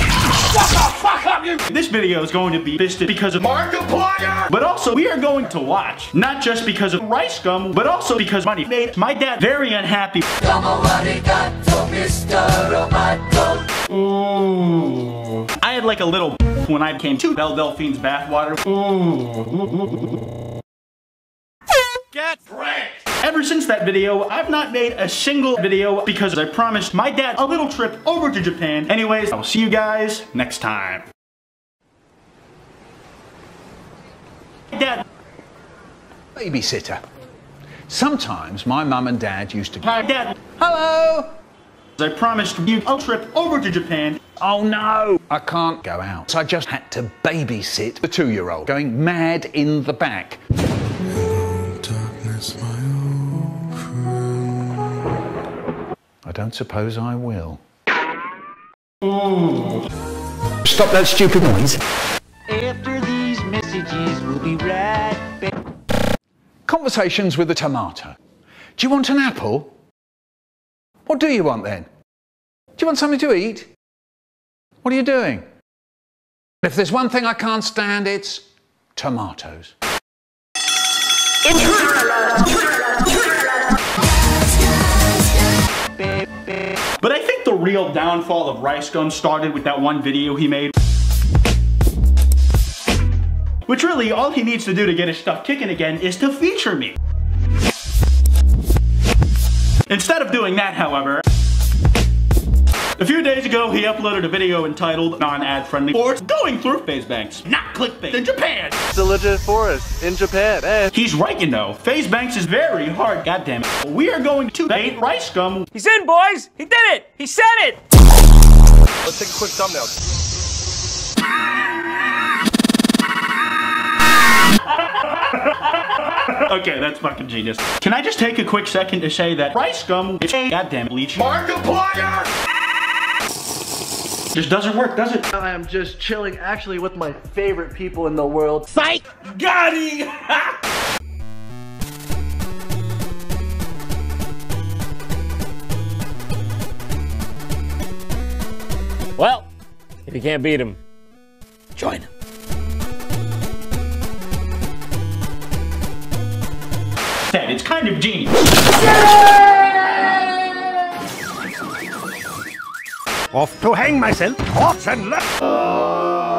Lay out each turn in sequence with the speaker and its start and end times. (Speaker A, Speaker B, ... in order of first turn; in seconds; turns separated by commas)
Speaker A: 1.4-3.8, Speaker B: 3.9-4.3, Speaker A: 4.4-10.7, Speaker C: 11.1-13.3, Speaker A: 15.6-18.9, Speaker A: 23.2-31.1, Speaker A: 34.7-35.0, Speaker D: 36.4-37.0, Speaker D: 37.9-39.9, Speaker A: 39.8-40.4, Speaker D: 40.5-41.3, Speaker A: 42.0-44.2, Speaker D: 44.4-50.4, Speaker E: 51.1-54.8, Speaker D: 56.2-57.6, Speaker D: 60.6-61.8, Speaker C: 62.5-65.5, Speaker D: 66.7-68.2, Speaker D: 68.8-69.7, Speaker D: 71.1-71.9, Speaker D: 72.8-73.7, Speaker D: 74.8-75.5, Speaker D: 76.6-78.4, Speaker D: 79.0-79.8, Speaker A: 87.0-90.7, Speaker A: 93.7-97.0, Speaker A: 99.9-101.2, Speaker A: 103.0-108.8, Speaker B: 108.9-110.9, Speaker A: 110.9-115.7, Speaker F: 115.7-117.8, Speaker B: 119.1-119.9, Speaker A: 125.0-131.3, Speaker B: 131.4-132.2, Speaker A: 134.3-135.3, Speaker B: 135.3-138.9, Speaker F: 139.4-140.0, Speaker F: 149.2-149.5, Speaker F: 150.1-150.8, Speaker F: 151.8-152.1, Speaker A: 157.3-159.3, Speaker G: 163.3-165.3